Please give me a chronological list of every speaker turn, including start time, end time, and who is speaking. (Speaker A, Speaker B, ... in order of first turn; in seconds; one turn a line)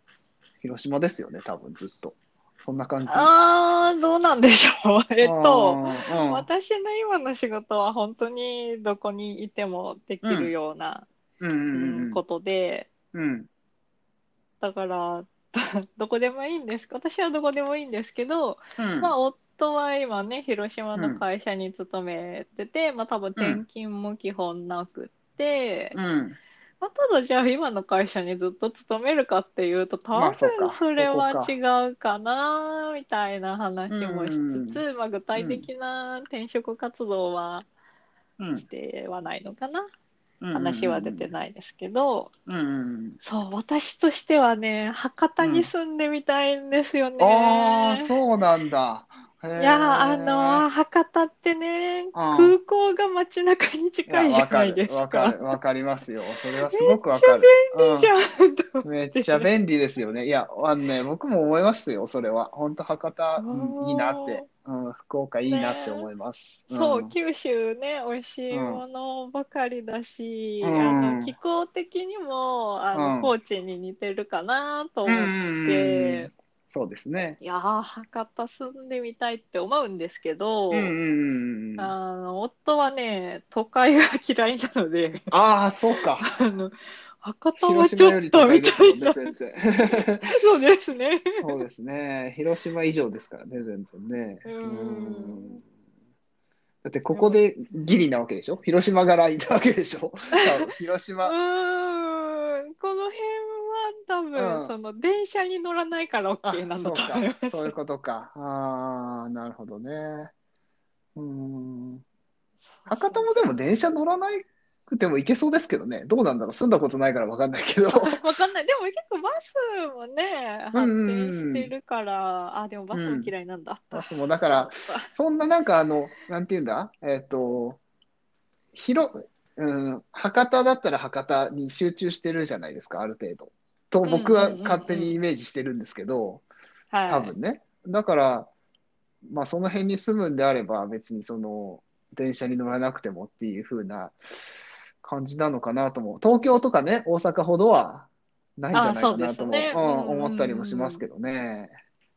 Speaker A: 0.6-3.3
Speaker B: 3.1-11.1
Speaker A: 5.2-6.5
Speaker A: 10.2-10.5
Speaker A: 11.4-12.2
Speaker B: 11.7-12.9
Speaker A: 13.1-13.5
Speaker B: 14.6-26.0
Speaker A: 18.8-19.1
Speaker A: 21.0-21.2
Speaker A: 23.4-23.6
Speaker A: 25.9-26.4
Speaker B: 26.8-37.7
Speaker A: 30.2-31.5
Speaker A: 33.9-34.8
Speaker A: 35.4-35.7
Speaker A: 38.4-38.7
Speaker B: 38.5-39.9
Speaker A: 40.4-41.3
Speaker B: 40.5-42.3
Speaker A: 42.5-43.2
Speaker B: 43.2-48.1
Speaker A: 45.4-45.7
Speaker A: 47.2-50.6
Speaker B: 49.6-55.4
Speaker A: 52.1-52.6
Speaker A: 54.1-58.1
Speaker B: 56.7-59.5
Speaker A: 58.8-67.2
Speaker B: 63.4-64.5
Speaker B: 65.5-66.1
Speaker B: 66.7-76.3
Speaker A: 68.5-68.8
Speaker A: 70.6-71.3
Speaker A: 72.9-73.3
Speaker A: 75.1-77.4
Speaker B: 77.4-80.9
Speaker A: 80.7-81.9
Speaker B: 81.8-85.3
Speaker A: 85.3-86.3
Speaker B: 86.2-89.3
Speaker A: 87.6-90.3
Speaker B: 90.2-91.5
Speaker A: 91.3-95.6
Speaker B: 94.5-95.6
Speaker A: 96.8-101.3
Speaker B: 97.1-97.4
Speaker B: 101.2-107.7
Speaker A: 104.3-104.7
Speaker A: 106.4-110.3
Speaker A: 111.2-112.0
Speaker B: 112.8-113.4
Speaker A: 112.9-118.2
Speaker B: 117.9-125.1
Speaker A: 120.7-121.7
Speaker A: 122.9-123.3
Speaker A: 123.9-127.8
Speaker A: 128.7-136.4
Speaker B: 134.1-135.2
Speaker B: 136.9-137.3
Speaker A: 137.1-138.5
Speaker A: 139.2-151.7
Speaker B: 148.7-151.0